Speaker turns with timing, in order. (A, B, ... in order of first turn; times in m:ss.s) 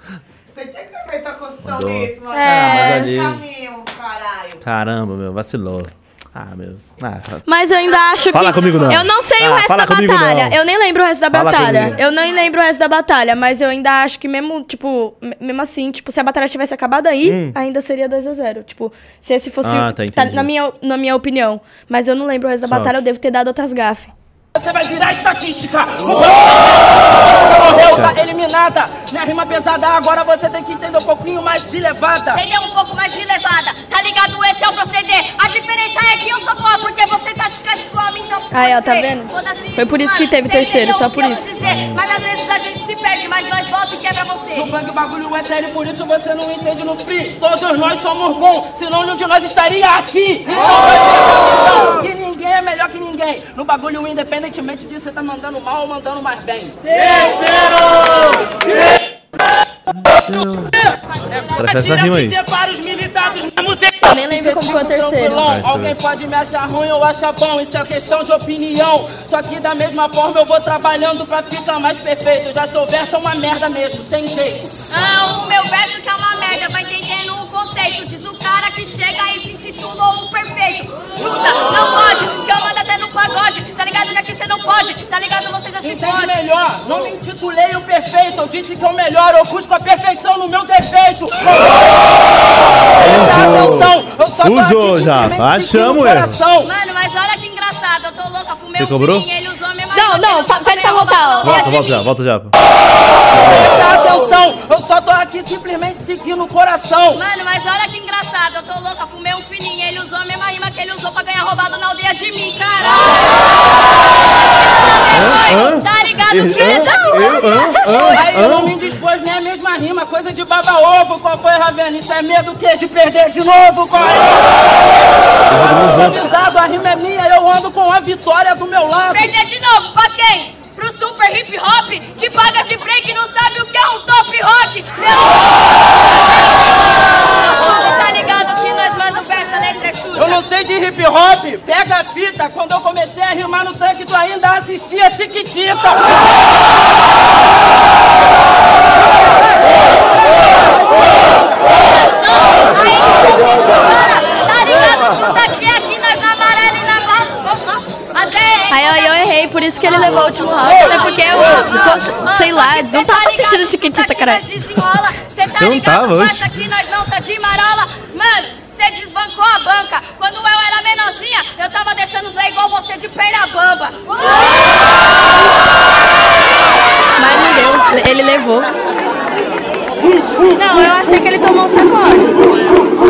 0:00.5-0:04.6 A
0:01.6-0:03.4 B
0:02.3-0:03.1 C
0:04.6-0:07.5 B
0:07.5-0:24.1 C
0:07.8-0:08.9 A
0:08.3-0:10.6 B
0:11.3-0:12.0 B
0:11.5-0:12.6 A
0:17.2-0:17.6 B
0:19.6-0:20.5 B
0:22.6-0:23.0 B
0:24.6-0:32.4 D
0:27.0-0:28.2 B
0:32.3-0:44.7 E
0:38.5-0:41.5 C
0:41.6-0:42.0 B
0:44.6-0:58.6 D
1:00.2-1:00.8 B
1:01.3-1:14.7 D
1:01.6-1:02.4 B
1:04.0-1:05.4 C
1:05.4-1:06.0 B
1:14.9-1:26.4 E
1:25.8-1:31.9 D
1:33.0-1:36.4 B
1:33.0-1:36.7 D
1:36.6-1:42.1 E
1:38.8-1:39.3 B
1:39.9-1:41.7 C
1:41.4-1:42.5 B
1:43.3-1:43.8 B
1:43.3-1:47.2 D
1:47.1-1:58.4 E
1:55.1-1:58.7 B
1:58.1-2:04.9 D
2:05.5-2:06.2 B
2:05.5-2:09.3 D
2:09.1-2:20.4 E
2:20.2-2:26.2 D
2:31.8-2:55.1 E
2:38.7-2:44.4 C
2:45.6-2:46.6 B
2:57.2-2:58.7 C
3:00.5-3:02.4 C